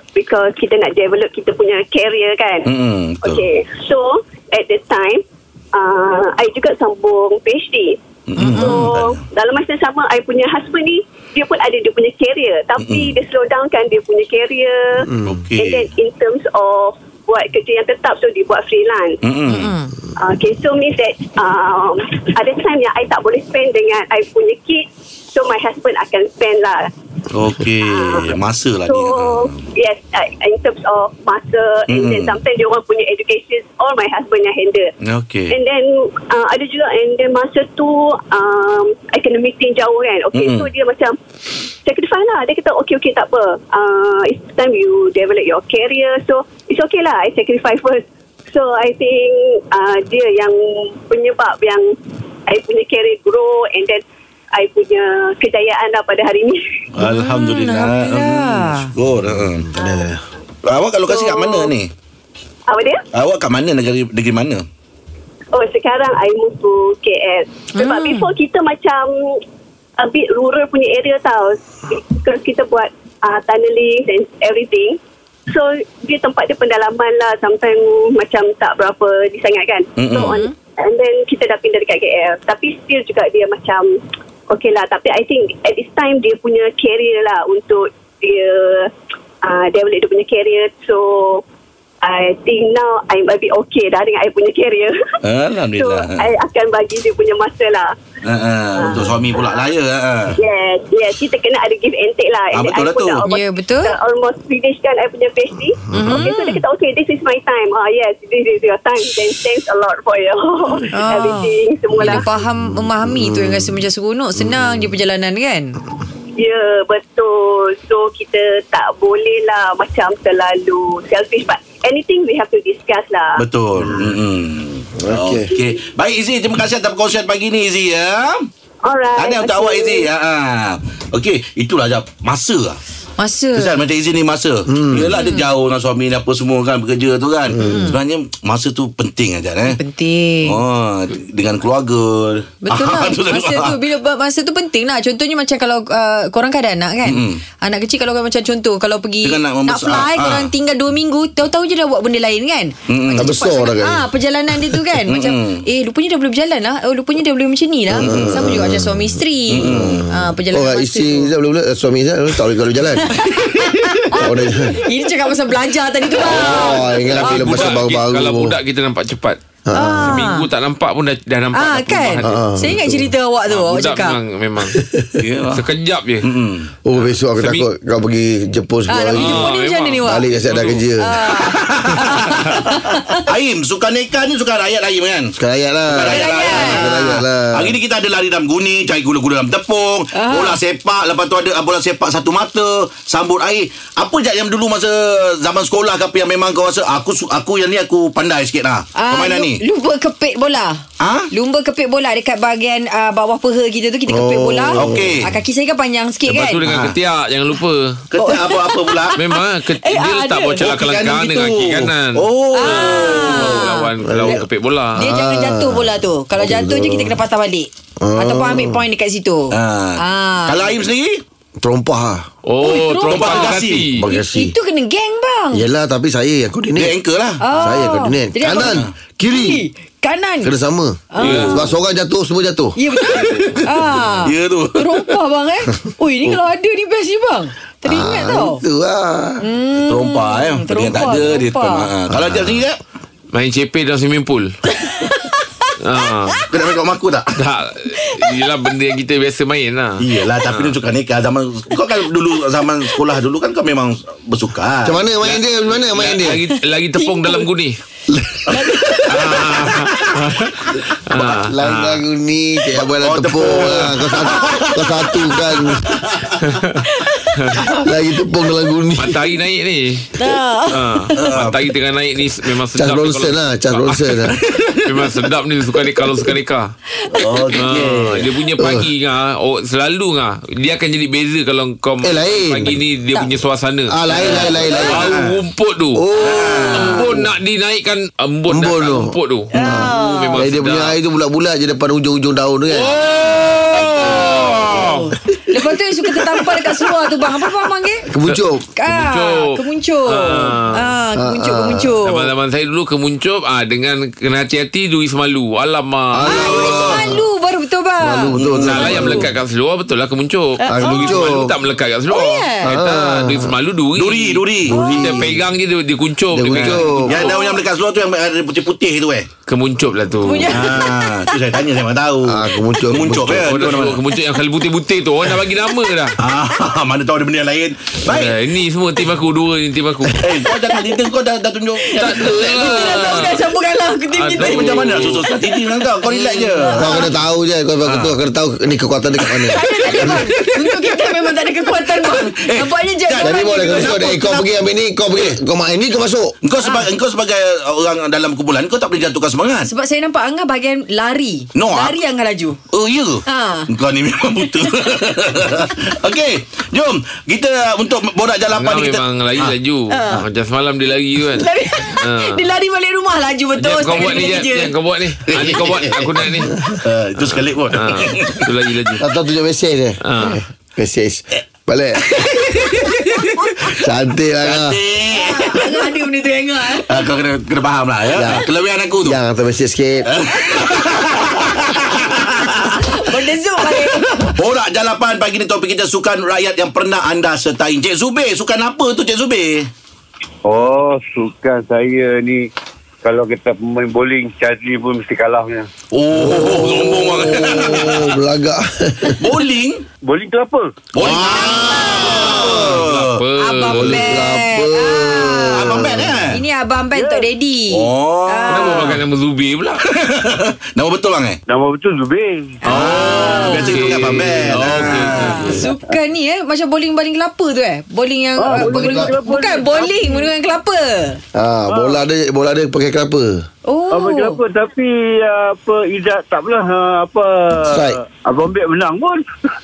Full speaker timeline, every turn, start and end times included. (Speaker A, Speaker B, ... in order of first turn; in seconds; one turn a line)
Speaker A: 0.1-8.0
Speaker B: 2.7-3.5
Speaker B: 8.3-9.2
Speaker C: 8.4-8.8
Speaker A: 8.5-19.2
Speaker B: 12.8-13.1
Speaker D: 15.1-15.4
Speaker B: 15.2-15.9
Speaker B: 19.2-19.8
Speaker C: 19.5-19.9
Speaker A: 20.2-26.9
Speaker B: 27.3-29.7
Speaker A: 27.8-34.9
Speaker B: 31.9-32.4
Speaker B: 35.0-35.5
Speaker A: 35.5-41.2
Speaker B: 40.3-40.7
Speaker A: 41.8-51.9
Speaker A: 52.5-54.0
Speaker A: 54.5-56.6
Speaker B: 57.0-59.7
Speaker C: 57.0-58.9
Speaker D: 59.4-60.2
Speaker A: 59.8-60.1
Speaker B: 60.6-61.9
Speaker A: 61.1-61.7
Speaker A: 62.7-63.0
Speaker B: 63.1-64.7
Speaker A: 65.5-69.4
Speaker C: 67.8-68.3
Speaker A: 70.0-91.4
Speaker B: 80.0-80.4
Speaker C: 80.2-80.5
Speaker A: 92.0-95.2
Speaker B: 95.2-96.3
Speaker A: 95.7-98.0
Speaker B: 98.2-100.4
Speaker A: 98.8-99.7
Speaker A: 100.4-112.3
Speaker B: 102.5-103.2
Speaker C: 103.3-103.9
Speaker D: 105.9-106.3
Speaker C: 105.9-106.6
Speaker C: 110.9-115.8
Speaker D: 112.3-113.8
Speaker D: 114.4-114.9
Speaker A: 116.4-123.4
Speaker B: 123.4-128.5
Speaker D: 125.0-125.5
Speaker A: 128.9-130.1
Speaker B: 129.2-132.8
Speaker C: 133.2-133.7
Speaker B: 133.5-139.8
Speaker D: 134.7-135.2
Speaker C: 135.2-135.5
Speaker D: 137.5-137.9
Speaker C: 137.6-138.0
Speaker C: 139.7-140.6
Speaker B: 140.4-143.8
Speaker C: 142.6-161.3
Speaker B: 147.1-147.4
Speaker B: 149.2-150.5
Speaker B: 152.9-153.3
Speaker D: 153.1-154.1
Speaker B: 154.9-155.7
Speaker B: 157.9-158.5
Speaker D: 158.0-163.2
Speaker B: 159.5-160.1
Speaker C: 163.0-167.7
Speaker D: 164.1-164.8
Speaker D: 166.2-168.6
Speaker E: 167.1-169.4
Speaker D: 169.7-170.2
Speaker C: 169.8-170.4
Speaker E: 170.0-172.5
Speaker C: 171.6-174.2
Speaker D: 172.2-173.1
Speaker E: 173.5-174.8
Speaker D: 174.8-175.2
Speaker B: 175.2-175.7
Speaker E: 175.5-176.3
Speaker B: 176.2-176.7
Speaker D: 176.8-179.5
Speaker E: 177.4-177.7
Speaker C: 178.9-180.2
Speaker E: 179.2-180.8
Speaker D: 180.0-181.1
Speaker C: 181.0-183.3
Speaker B: 181.3-185.3
Speaker D: 185.4-187.8
Speaker B: 185.9-199.6
Speaker C: 186.0-186.9
Speaker C: 190.1-190.6
Speaker C: 199.0-206.6
Speaker B: 201.0-201.3
Speaker D: 204.1-205.2
Speaker B: 204.8-205.3
Speaker E: 206.3-208.0
Speaker B: 206.7-206.9
Speaker B: 208.1-209.2
Speaker C: 208.2-210.6
Speaker E: 209.2-215.1
Speaker B: 210.6-213.7
Speaker C: 212.5-214.4
Speaker D: 214.0-214.4
Speaker C: 215.0-220.7
Speaker D: 215.0-217.2
Speaker D: 218.0-218.8
Speaker B: 219.5-221.2
Speaker D: 221.6-222.3
Speaker E: 222.5-224.0
Speaker C: 222.6-225.7
Speaker B: 223.1-223.9
Speaker D: 223.9-224.6
Speaker D: 225.5-226.9
Speaker B: 226.8-227.5
Speaker C: 227.4-230.5
Speaker D: 227.5-229.6
Speaker B: 228.5-228.9
Speaker D: 230.4-232.8
Speaker C: 231.1-231.7
Speaker E: 231.2-231.7
Speaker C: 232.8-238.6
Speaker B: 233.1-233.7
Speaker B: 234.2-235.1
Speaker D: 237.8-239.4
Speaker C: 239.4-241.9
Speaker B: 239.8-242.8
Speaker D: 242.1-242.6
Speaker E: 243.3-244.6
Speaker C: 244.9-245.5
Speaker E: 245.8-246.4
Speaker B: 246.5-247.4
Speaker E: 247.4-250.8
Speaker C: 248.0-248.3
Speaker B: 250.0-255.0
Speaker D: 254.8-256.4
Speaker E: 255.3-257.8
Speaker C: 256.5-257.5
Speaker D: 258.1-259.0
Speaker C: 258.5-259.1
Speaker B: 258.9-259.5
Speaker E: 259.1-262.0
Speaker D: 261.1-266.0
Speaker B: 262.9-264.9
Speaker B: 265.8-266.4
Speaker E: 266.4-266.8
Speaker C: 266.8-267.8
Speaker D: 267.8-269.2
Speaker E: 269.0-270.1
Speaker C: 270.2-271.2
Speaker E: 270.7-274.2
Speaker B: 271.1-271.6
Speaker D: 272.8-274.4
Speaker B: 274.3-274.9
Speaker E: 274.9-276.7
Speaker C: 277.0-277.6
Speaker B: 277.1-278.3
Speaker E: 277.5-286.1
Speaker D: 278.6-278.9
Speaker D: 282.0-282.8
Speaker D: 283.9-285.2
Speaker B: 284.1-285.4
Speaker D: 286.0-287.3
Speaker B: 286.2-287.1
Speaker E: 286.7-290.9
Speaker D: 288.5-292.9
Speaker C: 289.5-290.4
Speaker E: 292.7-295.1
Speaker C: 293.8-298.1
Speaker D: 294.0-294.8
Speaker D: 298.1-298.6
Speaker E: 298.2-300.9
Speaker C: 298.8-302.3
Speaker D: 301.1-302.0
Speaker E: 302.0-306.8
Speaker D: 306.1-307.2
Speaker C: 306.3-309.3
Speaker B: 306.5-306.9
Speaker D: 308.0-309.3
Speaker B: 308.4-309.0
Speaker E: 308.6-316.9
Speaker C: 310.6-311.2
Speaker D: 310.7-311.5
Speaker C: 312.1-312.7
Speaker D: 312.6-313.5
Speaker B: 314.0-314.8
Speaker D: 314.7-315.4
Speaker C: 314.7-315.1
Speaker D: 316.3-317.3
Speaker B: 316.5-319.3
Speaker C: 317.0-317.6
Speaker E: 319.5-320.6
Speaker C: 320.2-321.4
Speaker B: 320.5-324.0
Speaker D: 322.3-323.6
Speaker E: 323.3-326.2
Speaker B: 326.2-328.4
Speaker E: 328.1-330.2
Speaker B: 330.2-333.3
Speaker C: 330.5-331.0
Speaker C: 331.8-337.1
Speaker E: 332.0-333.4
Speaker E: 334.2-335.2
Speaker B: 334.4-337.0
Speaker D: 336.8-340.2
Speaker B: 337.8-338.1
Speaker B: 339.4-340.9
Speaker C: 339.5-344.4
Speaker B: 341.8-344.5
Speaker D: 343.2-346.4
Speaker B: 346.4-349.7
Speaker C: 346.6-346.9
Speaker C: 349.7-352.6
Speaker B: 351.6-352.0
Speaker B: 352.7-359.5
Speaker C: 353.3-353.7
Speaker C: 354.4-354.9
Speaker E: 358.5-362.4
Speaker C: 359.9-360.2
Speaker C: 361.4-364.7
Speaker E: 363.6-366.6
Speaker B: 365.3-368.5
Speaker E: 367.2-369.1
Speaker D: 369.0-372.6
Speaker E: 370.1-370.4
Speaker C: 372.3-373.5
Speaker D: 373.7-374.8
Speaker B: 374.4-375.8
Speaker C: 375.1-377.0
Speaker B: 376.8-379.2
Speaker D: 378.1-378.4
Speaker D: 379.0-380.1
Speaker B: 380.1-383.0
Speaker C: 380.5-384.3
Speaker B: 383.6-389.7
Speaker F: 390.5-392.5
Speaker F: 393.0-395.7
Speaker B: 395.9-398.2
Speaker D: 396.1-399.3
Speaker B: 399.2-399.9
Speaker F: 400.1-400.9
Speaker B: 400.9-403.2
Speaker C: 401.0-402.4
Speaker D: 401.1-402.9
Speaker E: 401.7-404.2
Speaker C: 403.4-409.0
Speaker D: 403.7-406.3
Speaker B: 405.5-406.4
Speaker F: 406.9-407.3
Speaker B: 407.7-408.9
Speaker E: 408.5-409.8
Speaker B: 409.8-411.4
Speaker F: 411.5-412.6
Speaker C: 412.6-414.0
Speaker E: 412.7-415.6
Speaker B: 412.7-415.5
Speaker C: 415.1-421.2
Speaker F: 415.6-415.9
Speaker F: 418.4-420.3
Speaker D: 418.5-419.1
Speaker D: 421.4-423.4
Speaker F: 421.7-422.0
Speaker C: 423.7-424.4
Speaker F: 423.9-429.2
Speaker D: 427.6-428.0